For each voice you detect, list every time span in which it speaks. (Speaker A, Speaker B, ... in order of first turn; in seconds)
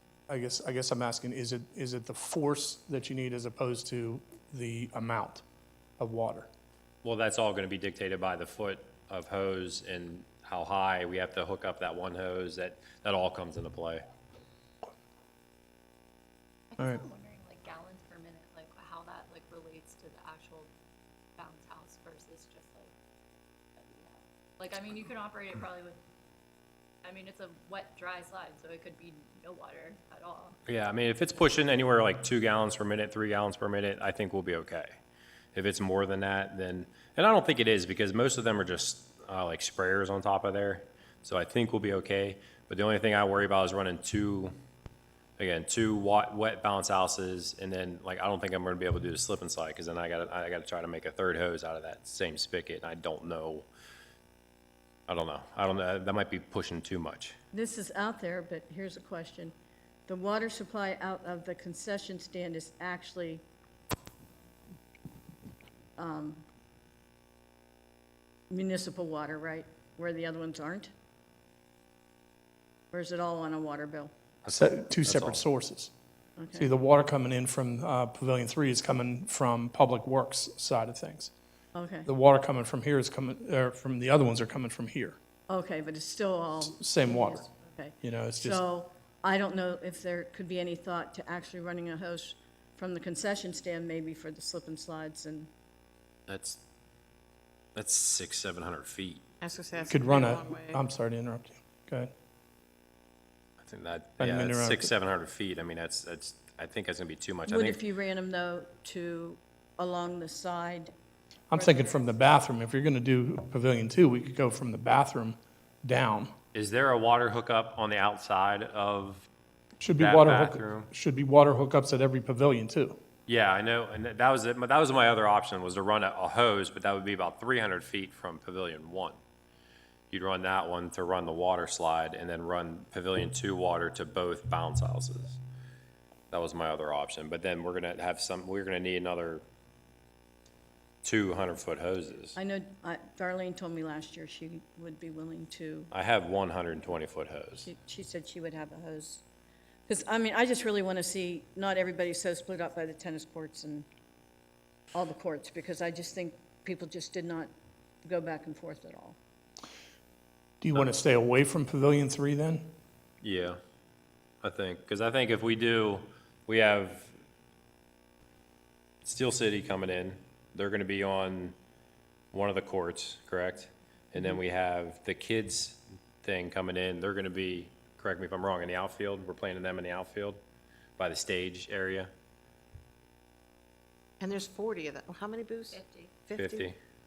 Speaker A: 0.3-5.4, 6.0-6.5, 74.5-75.9, 76.5-81.3, 82.0-85.2, 86.7-87.5, 88.0-88.6, 99.9-102.1, 104.2-104.9, 111.5-116.3, 119.8-123.0, 160.6-162.7
Speaker B: 7.0-14.0, 30.7-35.0, 35.5-44.5, 45.4-53.7, 55.1-57.3, 74.4-75.4, 96.3-96.6, 97.8-99.2, 103.6-107.8, 116.5-119.3, 120.0-120.9, 123.3-129.2, 130.1-135.4, 136.3-139.4, 141.0-142.4, 145.9-147.7, 163.2-163.6, 164.4-167.2, 169.0-171.6, 172.3-180.4, 181.0-182.1, 186.3-186.8
Speaker C: 16.7-20.7, 21.4-22.9, 23.8-26.0, 27.0-30.6, 185.7-186.1
Speaker D: 57.5-59.5, 60.1-63.4, 66.0-66.4, 68.5-70.9, 72.9-74.1, 76.4-76.7, 81.8-82.1, 85.5-95.5, 107.5-110.9, 111.5-112.2, 142.3-145.9, 147.7-149.2, 149.9-153.8, 154.9-157.5, 158.0-159.2
Speaker E: 99.4-100.8, 184.2-186.7